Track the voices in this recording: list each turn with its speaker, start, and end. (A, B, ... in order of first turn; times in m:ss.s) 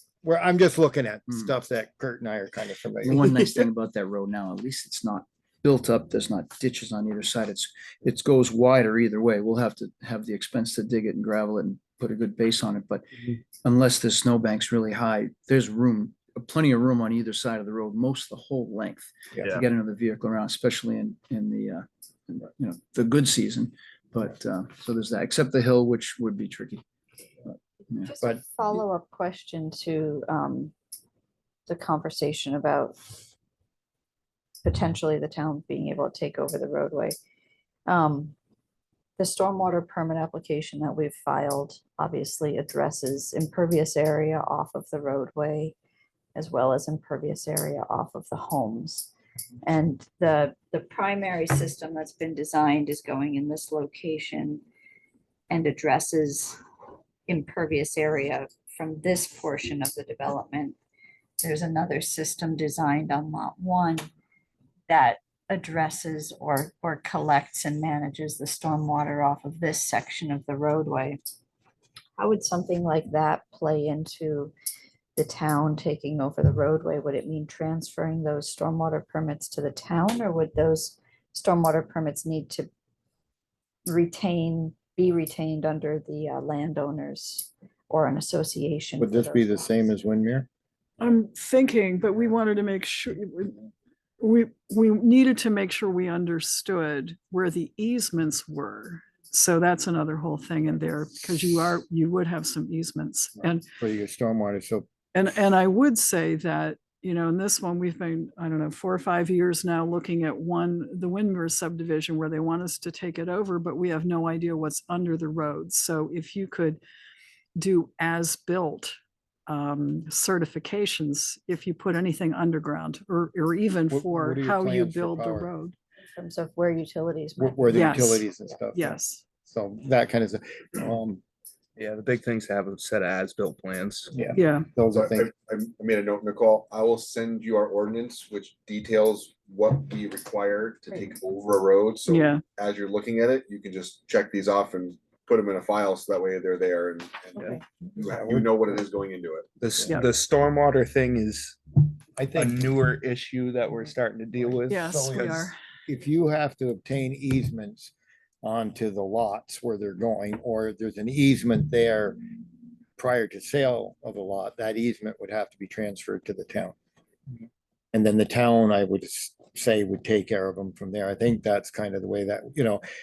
0:00.2-0:03.3 A
0:03.0-0:26.8 B
0:03.4-0:03.6 C
0:27.5-0:28.1 B
0:28.0-0:30.7 D
0:31.7-0:33.0 D
0:34.6-0:37.2 D
0:37.9-0:38.3 D
0:39.2-0:45.7 D
0:46.3-0:49.1 D
0:49.6-0:54.6 D
0:55.5-0:56.6 D
0:57.3-1:00.8 D
1:01.4-1:04.1 D
1:04.9-1:11.2 D
1:12.2-1:14.5 D
1:15.2-1:22.7 D
1:23.8-1:29.6 D
1:29.0-1:30.5 A
1:31.0-1:33.6 E
1:34.2-1:43.6 E
1:43.7-1:44.8 A
1:45.1-1:56.8 E
1:57.6-1:58.9 E
1:59.5-2:05.7 E
2:03.9-2:05.5 A
2:06.1-2:08.2 D
2:07.4-2:11.2 A
2:07.7-2:09.2 E
2:11.8-2:14.1 C
2:14.1-2:15.3 A
2:14.3-2:14.7 E
2:14.9-2:29.5 F
2:22.1-2:22.4 E
2:28.0-2:28.4 A
2:29.6-2:31.6 C
2:32.2-2:32.7 A
2:32.3-2:35.5 C
2:34.7-2:35.6 E
2:34.8-2:42.2 A
2:43.0-2:46.7 A
2:47.9-2:52.8 A